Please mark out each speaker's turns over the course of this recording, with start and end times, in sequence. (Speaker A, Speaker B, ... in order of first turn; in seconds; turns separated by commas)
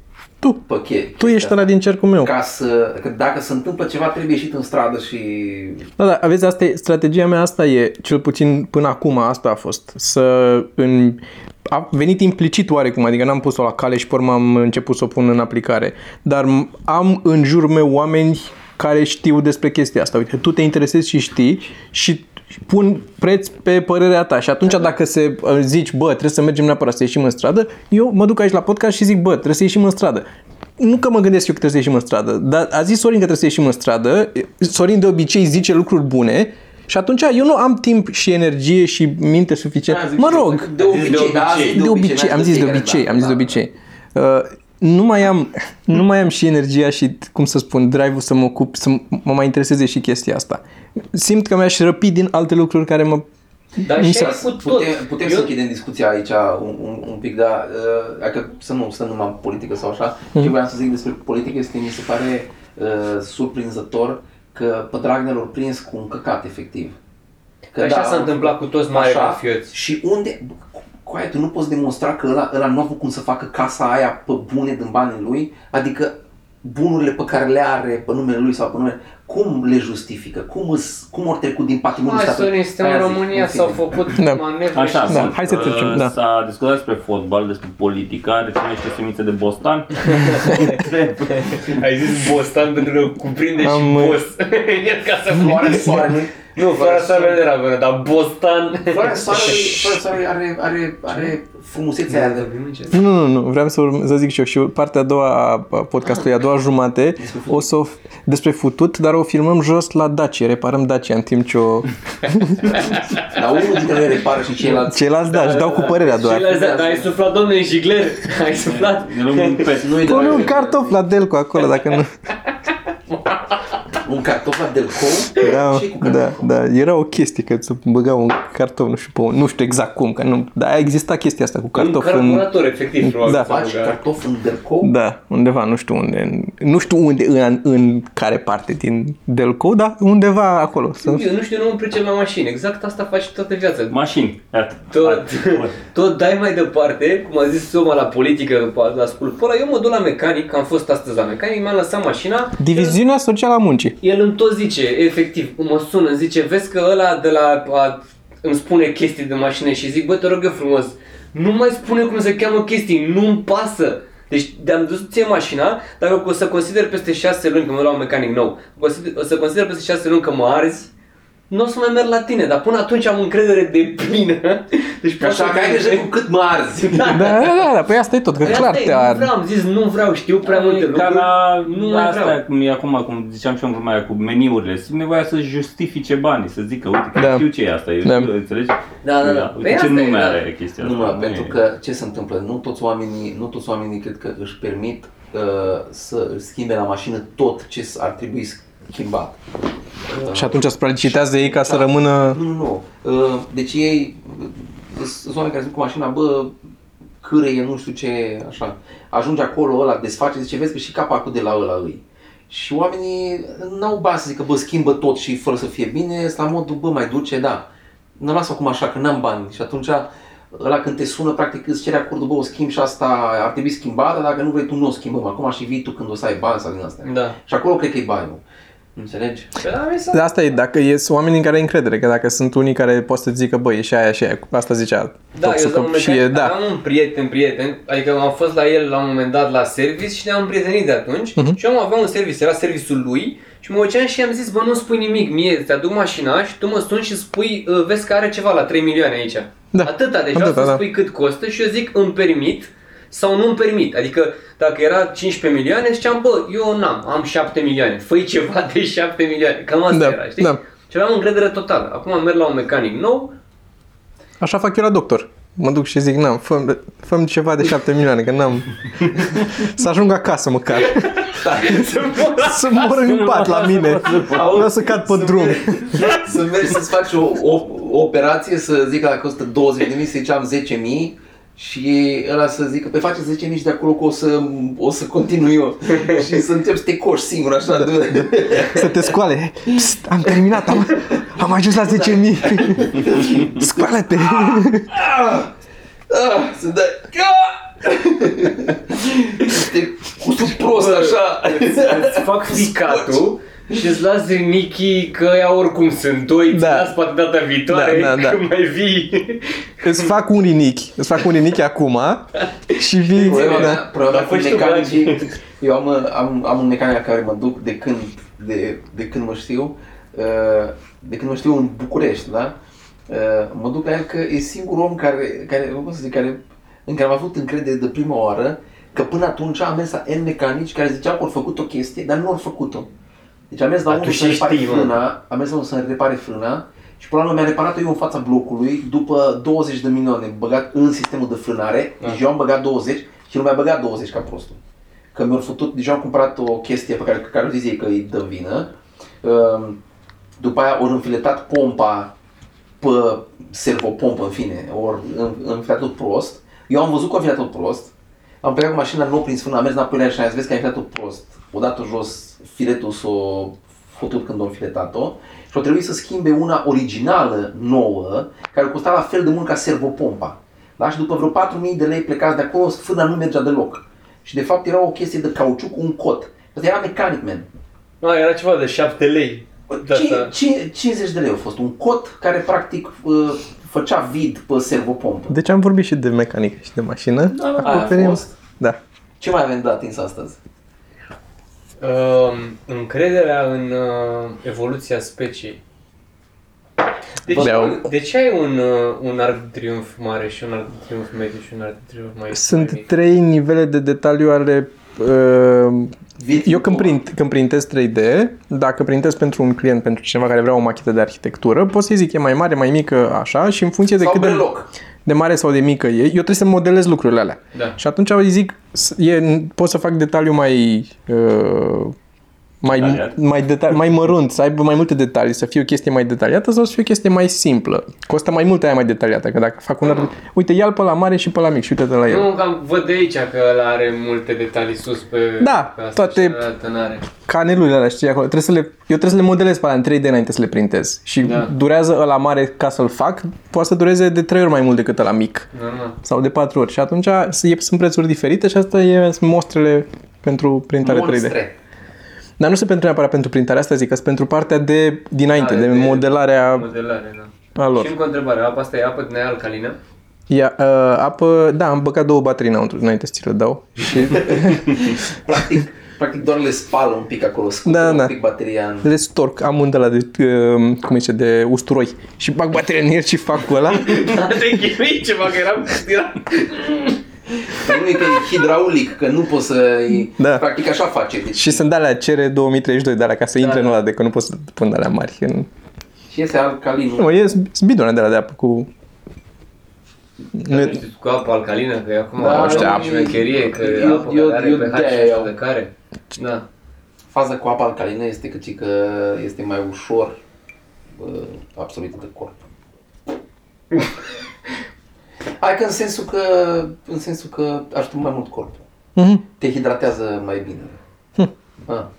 Speaker A: 0.7-5.9, Speaker B: 1.2-2.3, Speaker B: 6.0-30.2, Speaker B: 30.8-40.7, Speaker A: 39.9-43.6, Speaker C: 40.8-41.8, Speaker D: 41.0-41.4, Speaker B: 41.5-53.3, Speaker C: 53.8-55.5, Speaker B: 53.9-54.4, Speaker A: 53.9-67.0, Speaker A: 67.7-83.9, Speaker C: 67.8-69.7, Speaker C: 82.0-85.4, Speaker B: 84.2-84.4, Speaker D: 84.7-91.8, Speaker B: 85.1-86.1, Speaker C: 90.1-99.6, Speaker B: 93.6-94.2, Speaker A: 95.3-97.4, Speaker A: 98.9-102.5, Speaker C: 102.1-103.0, Speaker B: 102.9-112.9, Speaker A: 107.2-107.7, Speaker C: 112.8-113.4, Speaker A: 113.2-115.7, Speaker B: 114.7-116.5, Speaker C: 115.3-119.8, Speaker A: 116.4-117.2, Speaker D: 118.7-120.5, Speaker A: 119.8-121.0, Speaker B: 120.0-122.1, Speaker C: 123.1-123.5, Speaker A: 124.0-126.5, Speaker B: 125.4-132.5, Speaker C: 131.8-134.0, Speaker B: 133.0-133.5, Speaker A: 133.3-134.9, Speaker B: 134.8-141.2, Speaker C: 141.0-144.0, Speaker D: 143.9-145.8, Speaker C: 144.9-153.0, Speaker B: 152.6-154.0, Speaker C: 154.0-170.9, Speaker C: 171.5-176.1, Speaker A: 175.2-177.3, Speaker C: 176.8-177.5, Speaker B: 177.1-179.3, Speaker C: 178.4-182.4, Speaker D: 180.4-191.6, Speaker B: 187.2-187.4, Speaker B: 188.0-188.3, Speaker C: 189.0-190.4, Speaker A: 190.8-199.4, Speaker A: 200.1-206.5, Speaker B: 200.3-202.4, Speaker A: 207.2-228.4, Speaker C: 227.0-227.4, Speaker A: 229.0-229.5, Speaker C: 229.6-230.2, Speaker B: 230.1-236.6, Speaker C: 235.3-263.4, Speaker B: 249.7-250.8, Speaker B: 259.9-260.6, Speaker B: 264.4-271.2, Speaker C: 270.8-273.3, Speaker A: 271.4-271.9, Speaker B: 272.4-276.1, Speaker D: 273.0-274.8, Speaker C: 274.1-276.3, Speaker A: 275.9-289.1, Speaker B: 287.8-294.9, Speaker A: 290.8-291.1, Speaker A: 291.8-295.5, Speaker A: 296.1-303.3, Speaker C: 300.5-310.1, Speaker B: 306.5-306.9, Speaker B: 307.7-308.4, Speaker B: 309.8-313.8, Speaker C: 312.7-315.3, Speaker A: 313.2-322.6, Speaker A: 323.1-332.9, Speaker A: 333.5-344.6, Speaker C: 333.9-334.9, Speaker A: 345.1-349.8, Speaker A: 350.4-352.1, Speaker A: 352.8-377.5, Speaker C: 378.0-380.3, Speaker A: 379.7-385.4, Speaker B: 385.3-388.8, Speaker A: 387.4-388.3, Speaker C: 387.6-388.1, Speaker A: 389.2-390.4, Speaker C: 391.8-395.6, Speaker C: 397.2-402.9, Speaker A: 397.3-397.6, Speaker B: 397.4-397.8, Speaker B: 402.3-414.4, Speaker A: 406.2-407.0, Speaker A: 414.0-414.7, Speaker B: 415.1-421.9, Speaker B: 422.6-432.3, Speaker D: 422.7-423.1, Speaker C: 432.1-437.1, Speaker B: 435.4-436.4, Speaker B: 437.3-445.5, Speaker C: 441.2-441.5, Speaker C: 445.5-446.0, Speaker B: 446.0-451.4, Speaker A: 450.8-451.5, Speaker B: 452.4-456.7, Speaker C: 455.3-459.8, Speaker B: 457.6-457.9, Speaker B: 460.3-464.8, Speaker A: 464.1-468.9, Speaker B: 467.7-468.1, Speaker B: 468.8-474.4, Speaker C: 473.7-477.8, Speaker A: 477.6-481.6, Speaker B: 480.2-480.5, Speaker B: 481.3-485.5, Speaker C: 483.4-483.8, Speaker A: 486.1-487.1, Speaker B: 487.0-488.7, Speaker B: 490.4-490.8, Speaker C: 490.4-496.4, Speaker A: 492.2-495.3, Speaker B: 492.2-493.1, Speaker A: 497.1-500.2, Speaker A: 501.0-502.4, Speaker A: 505.4-508.6, Speaker B: 509.0-509.2, Speaker A: 509.4-510.8